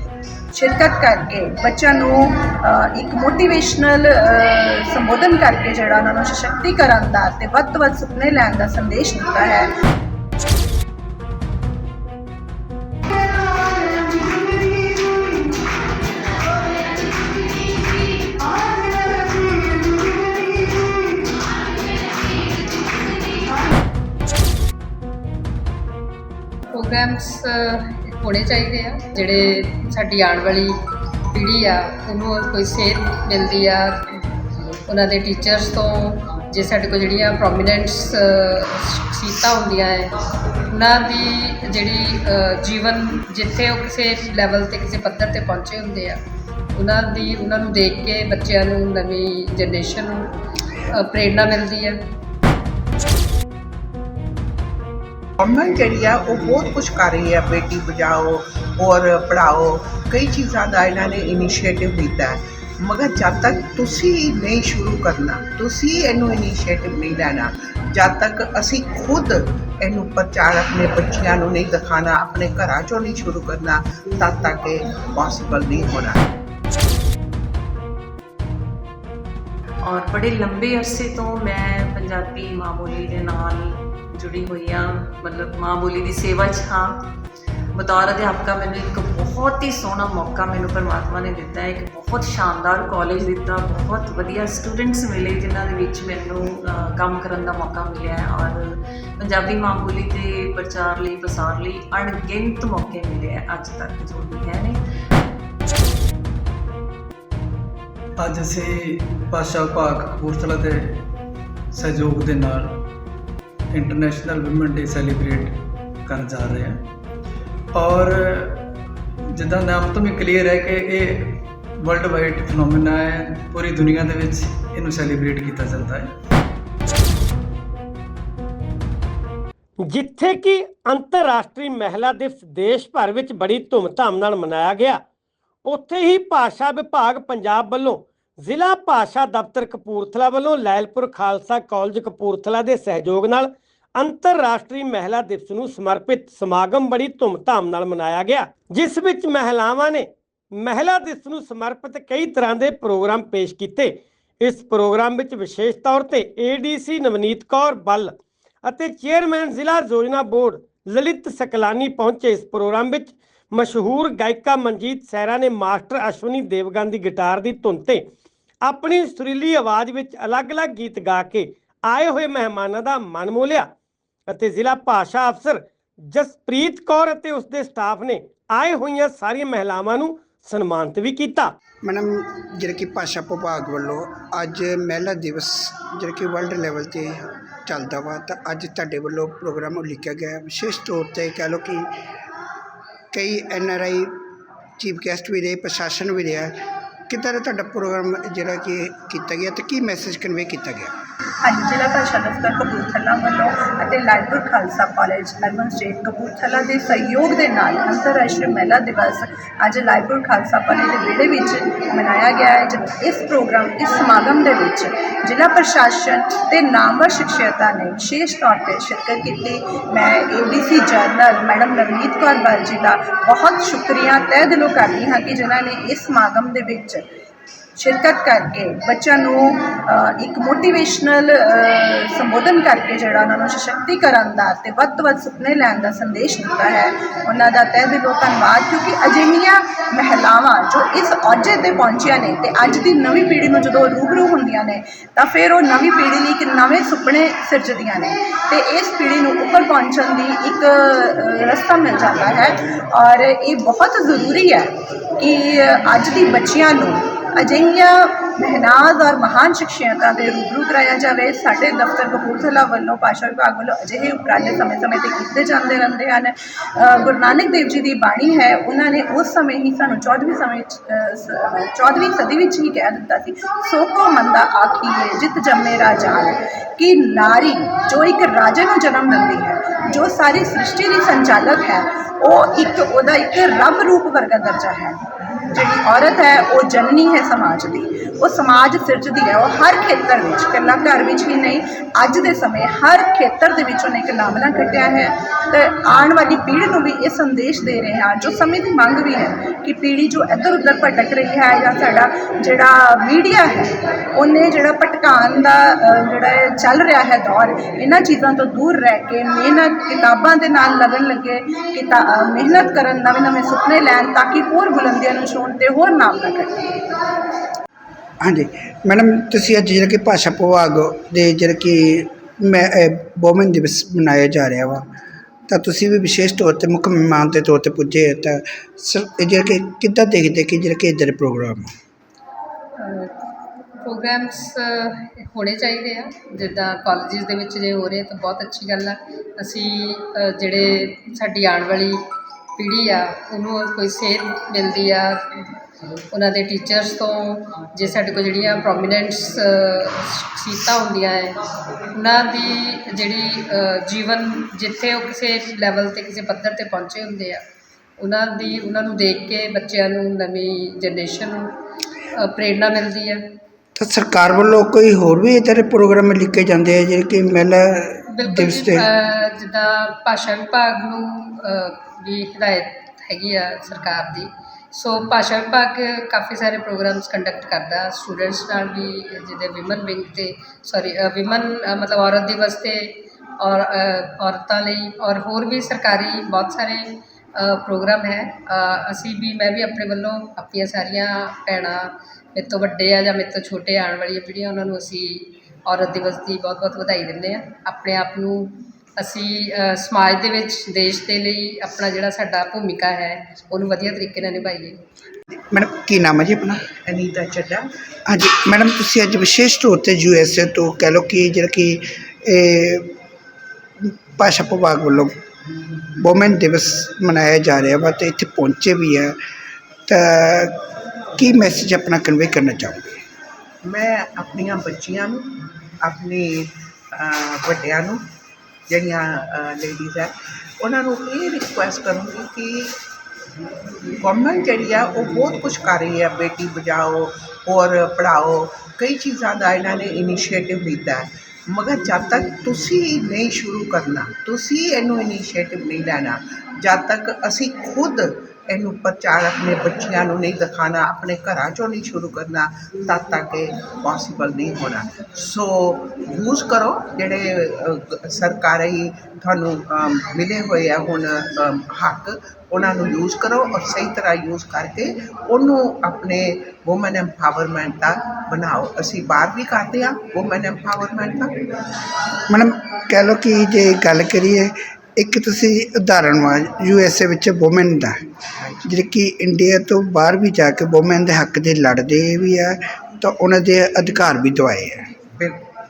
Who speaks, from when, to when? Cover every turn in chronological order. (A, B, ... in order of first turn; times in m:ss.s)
0:00.5-0:09.7 A
0:26.7-0:30.7 B
0:31.3-0:33.9 B
0:34.9-0:40.1 B
0:40.7-0:46.2 B
0:46.7-0:50.3 B
0:50.9-0:52.0 B
0:55.4-1:16.2 C
1:19.8-1:27.0 D
1:27.7-1:44.8 D
1:48.2-1:51.0 E
1:51.7-1:52.8 E
1:53.7-1:56.8 E
1:57.7-1:58.7 E
1:59.3-2:06.1 E
2:09.8-2:15.0 F
2:15.6-2:48.1 F
2:48.6-2:53.7 F
2:54.3-3:01.5 F
3:01.8-3:11.9 G
3:13.1-3:14.1 G
3:14.8-3:16.5 G
3:17.1-3:20.9 G
3:21.4-3:47.0 A
3:47.8-4:45.0 A
4:45.5-5:16.6 A
5:18.2-5:24.8 G
5:25.5-5:31.7 G
5:32.8-5:33.1 B
5:33.8-5:42.0 B
5:42.6-5:45.2 B
5:46.1-5:51.4 B
5:51.9-5:57.4 B
5:58.0-6:01.5 B
6:02.2-6:03.2 B
6:03.8-6:08.8 G
6:08.1-6:44.8 B
6:45.5-6:46.6 G
6:46.8-6:47.7 C
6:48.1-6:52.9 G
6:53.8-6:55.2 G
6:56.0-6:59.1 G
6:59.9-7:00.6 G
7:01.2-7:03.0 G
7:03.6-7:05.2 C
7:05.8-7:08.0 C
7:08.7-7:12.7 C
7:14.0-7:51.3 C
7:52.3-7:58.0 G
7:58.4-7:58.7 C
7:58.6-8:04.9 G